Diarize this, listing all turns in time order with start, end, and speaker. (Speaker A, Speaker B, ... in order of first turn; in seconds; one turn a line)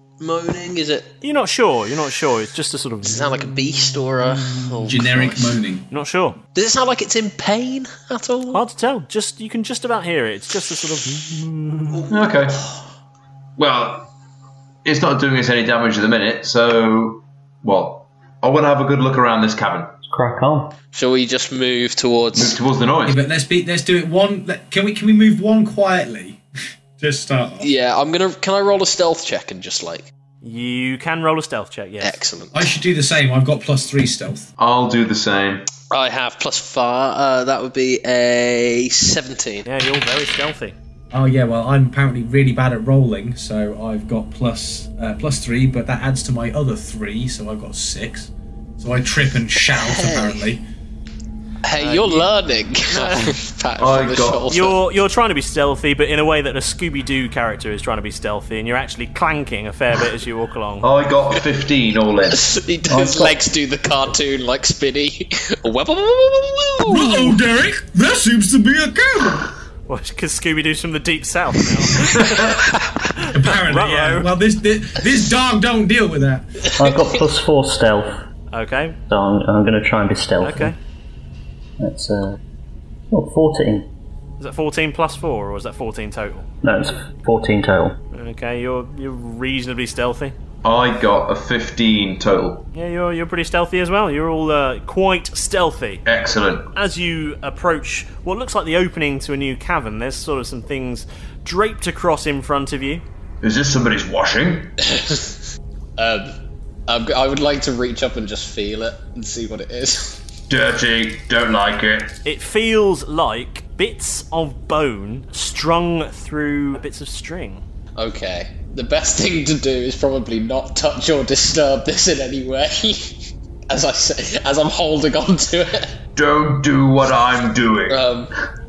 Speaker A: 0.2-1.1
Speaker B: 1.2-3.4
Speaker A: 3.0-5.5
Speaker C: 4.8-5.8
Speaker B: 5.9-6.4
Speaker A: 6.5-8.6
Speaker B: 8.5-12.1
Speaker D: 12.1-12.6
Speaker D: 13.6-14.1
Speaker D: 14.8-19.9
Speaker E: 20.1-20.7
Speaker A: 20.9-22.6
Speaker D: 22.3-23.2
Speaker C: 23.1-26.4
Speaker C: 27.0-27.7
Speaker A: 27.6-30.1
Speaker B: 30.4-32.2
Speaker A: 32.0-32.7
Speaker C: 32.5-34.5
Speaker D: 34.6-35.7
Speaker A: 35.9-39.7
Speaker B: 39.6-40.8
Speaker C: 41.1-50.6
Speaker A: 49.7-50.4
Speaker A: 51.6-54.8
Speaker B: 51.8-52.3
Speaker B: 52.9-53.4
Speaker D: 53.8-54.5
Speaker B: 54.5-60.9
Speaker D: 60.8-62.4
Speaker A: 62.3-67.3
Speaker E: 62.9-63.4
Speaker C: 66.8-69.5
Speaker B: 69.9-72.6
Speaker A: 72.5-73.0
Speaker B: 73.2-74.3
Speaker C: 73.3-76.5
Speaker A: 76.6-77.1
Speaker E: 76.8-78.2
Speaker B: 78.5-79.0
Speaker E: 79.1-80.7
Speaker B: 80.4-80.8
Speaker E: 81.8-82.4
Speaker E: 83.1-83.9
Speaker B: 84.4-86.5
Speaker E: 86.6-88.0
Speaker B: 88.1-90.3
Speaker D: 90.6-92.7
Speaker B: 92.7-96.0
Speaker D: 96.0-96.7
Speaker B: 96.7-103.0
Speaker D: 103.4-104.7
Speaker A: 104.8-105.3
Speaker A: 106.0-106.3
Speaker A: 106.9-110.2
Speaker D: 110.5-112.1
Speaker B: 112.2-117.6
Speaker A: 118.0-123.2
Speaker A: 123.7-125.9
Speaker D: 126.1-128.0
Speaker A: 127.9-128.3